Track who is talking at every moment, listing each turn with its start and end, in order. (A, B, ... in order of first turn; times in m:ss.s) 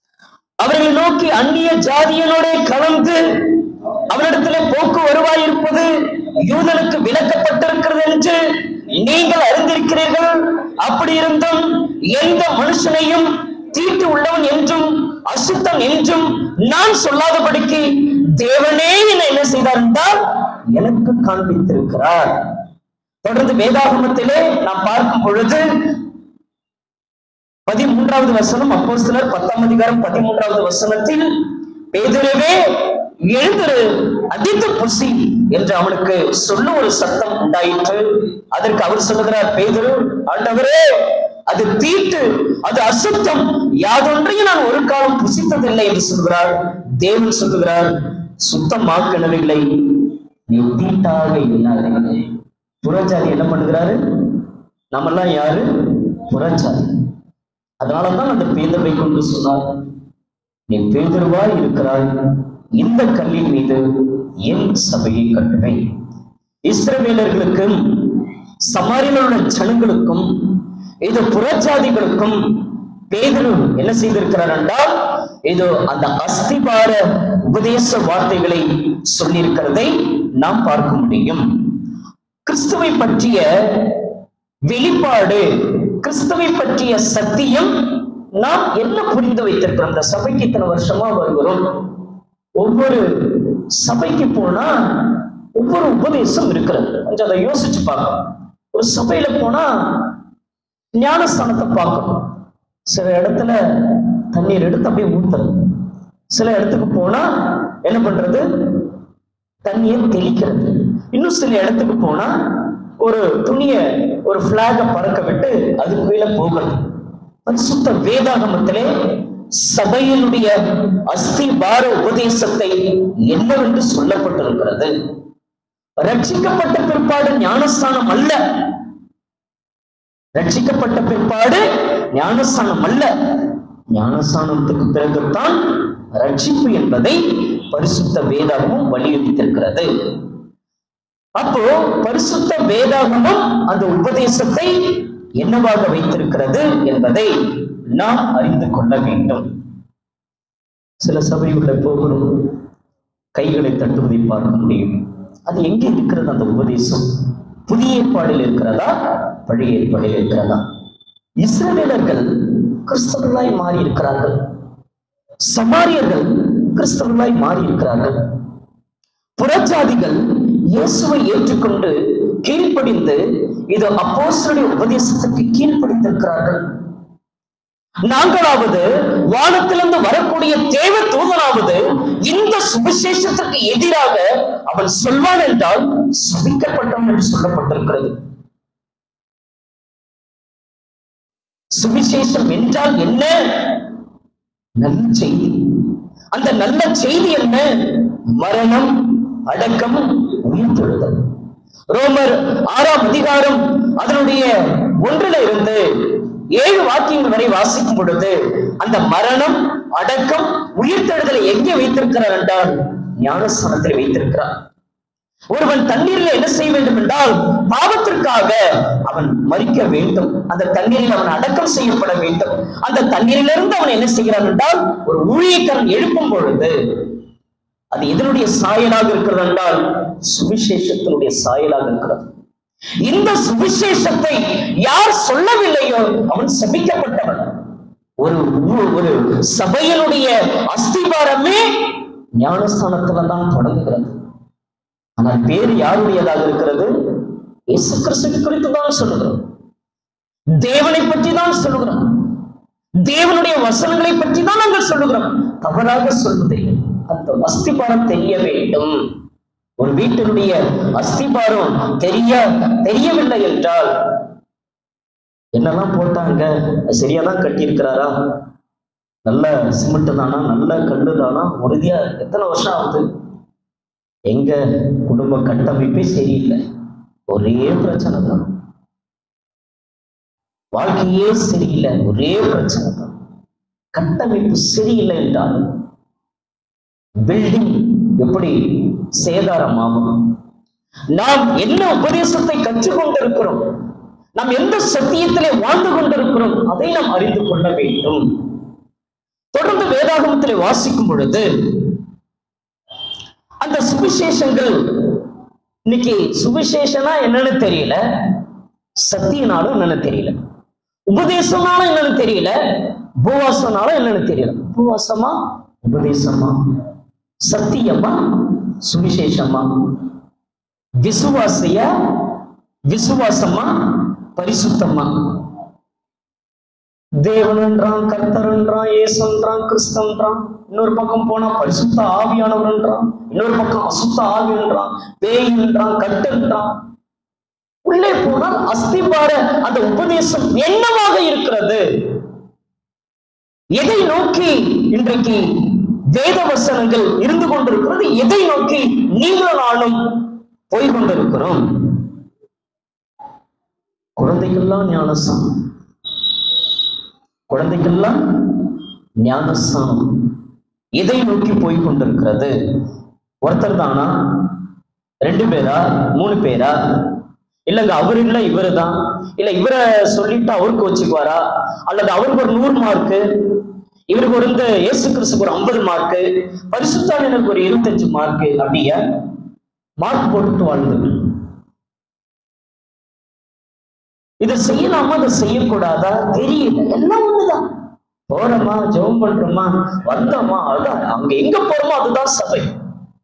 0:00.6-0:03.6 A
0:04.1-0:05.9 A
0:06.4-0:08.4 A
0:08.9-0:20.2 A
0:20.8-0:22.3 A
0:23.2-0:25.6 A
0:27.7-0:31.3 A
0:31.9-0:32.6 A
0:33.2-0:40.8 A
0:41.5-0:47.9 A
0:48.4-0:49.6 A
0:50.5-0:52.2 A
0:52.8-0:54.0 A
0:54.9-0:56.9 A
0:57.8-0:59.6 A
1:00.7-1:02.0 A
1:02.8-1:03.8 A
1:04.4-1:05.8 A
1:06.7-1:10.2 A
1:11.0-1:12.4 A
1:13.1-1:14.9 A
1:15.5-1:21.4 A
1:22.4-1:23.9 A
1:24.7-1:25.4 A
1:26.0-1:27.7 A
1:28.4-1:31.6 A
1:32.6-1:38.2 A
1:38.7-1:39.7 A
1:40.9-1:42.2 A
1:42.9-1:45.5 A
1:46.3-1:47.2 A
1:47.8-1:48.4 A
1:49.6-1:52.3 A
1:53.0-1:56.8 A
1:57.4-1:58.9 A
1:59.6-2:00.5 A
2:01.1-2:04.9 A
2:06.0-2:08.4 A
2:10.4-2:11.6 A
2:12.1-2:13.1 A
2:13.9-2:15.6 A
2:16.1-2:19.9 A
2:21.4-2:27.3 A
2:28.0-2:29.5 A
2:31.0-2:32.3 A
2:33.4-2:34.9 A
2:35.5-2:37.0 A
2:37.7-2:38.9 A
2:39.4-2:40.6 A
2:41.4-2:44.3 A
2:45.5-2:48.1 A
2:49.4-2:56.6 A
2:58.1-3:08.1 A
3:11.8-3:13.8 A
3:14.8-3:21.2 A
3:21.9-3:24.5 A
3:25.0-3:25.8 A
3:26.5-3:34.5 A
3:35.5-3:38.6 A
3:39.1-3:46.7 A
3:47.9-3:52.3 A
3:53.0-3:57.5 A
3:58.2-4:01.6 A
4:02.4-4:04.2 A
4:05.2-4:06.9 A
4:07.7-4:09.4 A
4:10.6-4:12.0 A
4:13.0-4:19.0 A
4:19.8-4:23.9 A
4:25.6-4:28.1 A
4:29.2-4:33.0 A
4:34.3-4:36.6 A
4:37.3-4:38.5 A
4:40.7-4:43.1 A
4:43.9-4:45.5 A
4:47.3-4:50.1 A
4:51.2-4:53.6 A
4:54.4-4:58.2 A
4:59.5-5:01.4 A
5:03.6-5:05.1 A
5:05.9-5:08.0 A
5:09.0-5:10.4 A
5:11.1-5:12.5 A
5:13.2-5:16.6 A
5:17.5-5:18.2 A
5:18.8-5:19.6 A
5:21.0-5:21.8 A
5:22.9-5:25.1 A
5:27.2-5:36.7 A
5:37.8-5:41.8 A
5:43.8-5:50.0 A
5:50.7-5:51.6 A
5:54.2-5:55.5 A
5:57.5-5:58.2 A
5:59.2-6:00.1 A
6:01.0-6:02.5 A
6:03.4-6:04.1 A
6:05.2-6:06.7 A
6:07.7-6:13.2 A
6:14.1-6:19.0 A
6:20.0-6:21.2 A
6:24.4-6:27.6 A
6:28.3-6:32.7 A